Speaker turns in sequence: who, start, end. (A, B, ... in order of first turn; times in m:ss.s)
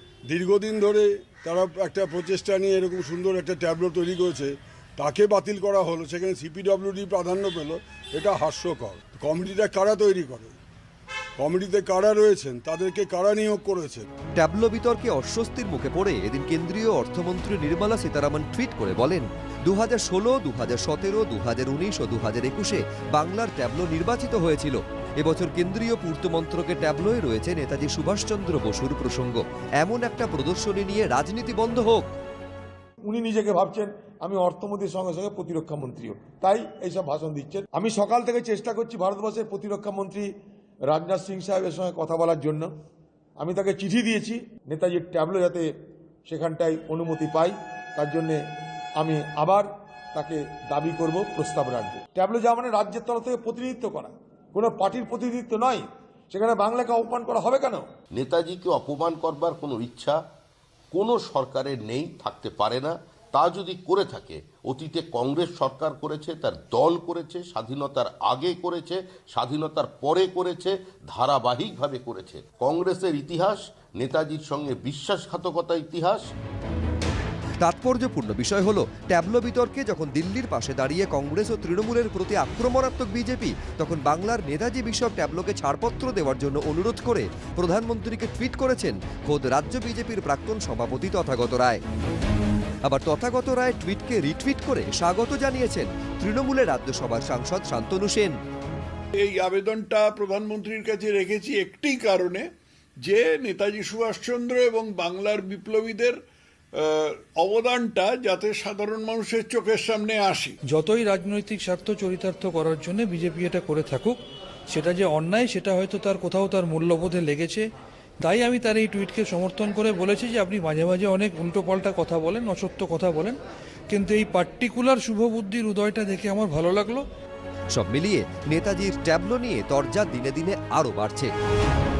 0:00.2-0:10.6 A
0:11.4-0:14.1 A
0:14.4-0:32.1 B
0:33.0-0:40.3 C
0:40.9-0:42.7 C
0:43.4-0:45.7 C
0:46.2-0:48.4 C
0:49.0-0:57.8 C
0:58.1-1:00.2 D
1:00.9-1:16.2 D
1:17.6-1:31.8 B
1:32.8-1:38.4 B
1:39.2-1:42.5 E
1:43.0-1:46.2 E
1:46.8-1:50.6 E
1:50.6-1:54.2 F
1:54.7-1:57.6 F
1:58.2-2:03.4 F
2:03.9-2:07.0 F
2:07.7-2:11.3 B